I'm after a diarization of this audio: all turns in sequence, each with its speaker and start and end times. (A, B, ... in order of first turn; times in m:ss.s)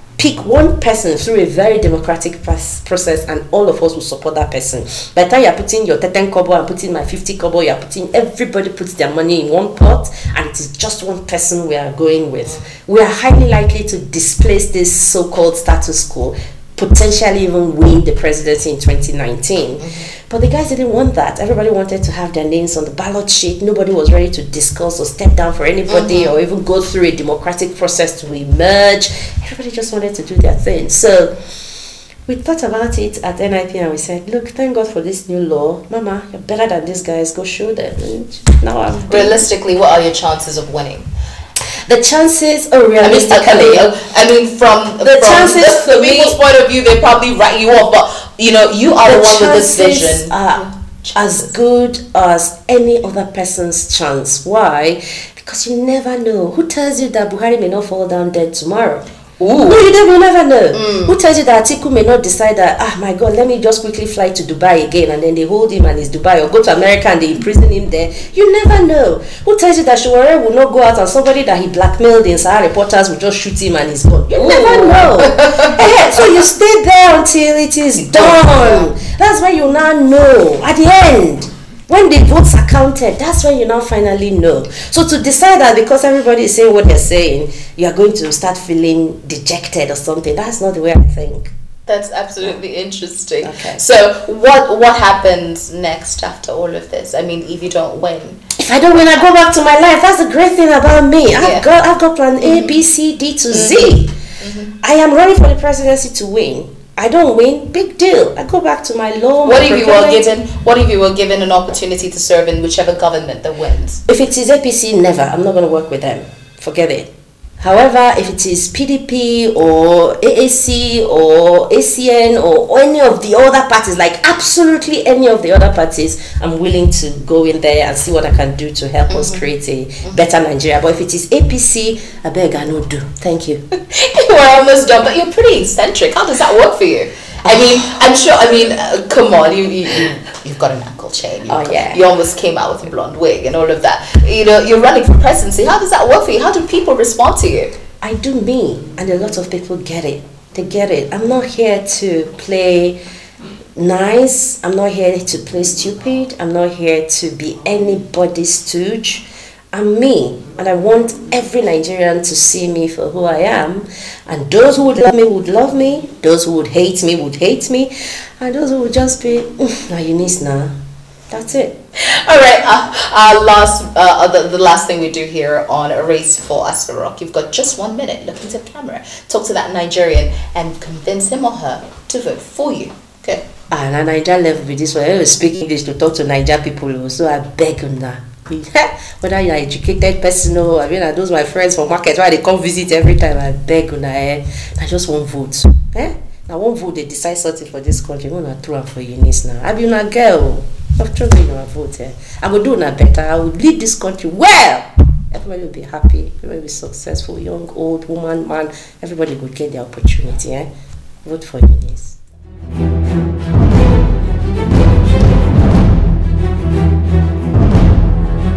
0:00.2-0:31.3 A
0:19.8-0:20.1 B
0:25.9-0:26.3 B
0:32.3-0:39.4 A
0:39.0-0:41.0 B
0:41.9-0:43.9 A
0:43.0-0:51.5 B
0:45.0-0:46.4 A
0:49.0-0:59.0 A
0:59.4-0:59.8 B
0:59.6-1:31.5 A
1:00.7-1:01.2 B
1:14.4-1:15.0 B
1:18.0-1:18.9 B
1:31.9-1:38.4 B
1:33.4-1:33.8 A
1:38.6-1:44.1 A
1:41.3-1:41.7 B
1:42.4-1:42.8 B
1:43.5-1:44.7 B
1:44.8-1:50.3 A
1:49.4-1:54.0 B
1:54.1-2:13.6 A
2:09.1-2:09.4 B
2:13.9-2:27.7 B
2:21.5-2:22.0 A
2:28.0-2:33.0 A
2:33.8-2:50.7 A
2:51.3-2:51.8 A
2:52.0-3:03.4 B
3:03.7-3:30.7 A
3:31.2-3:32.2 A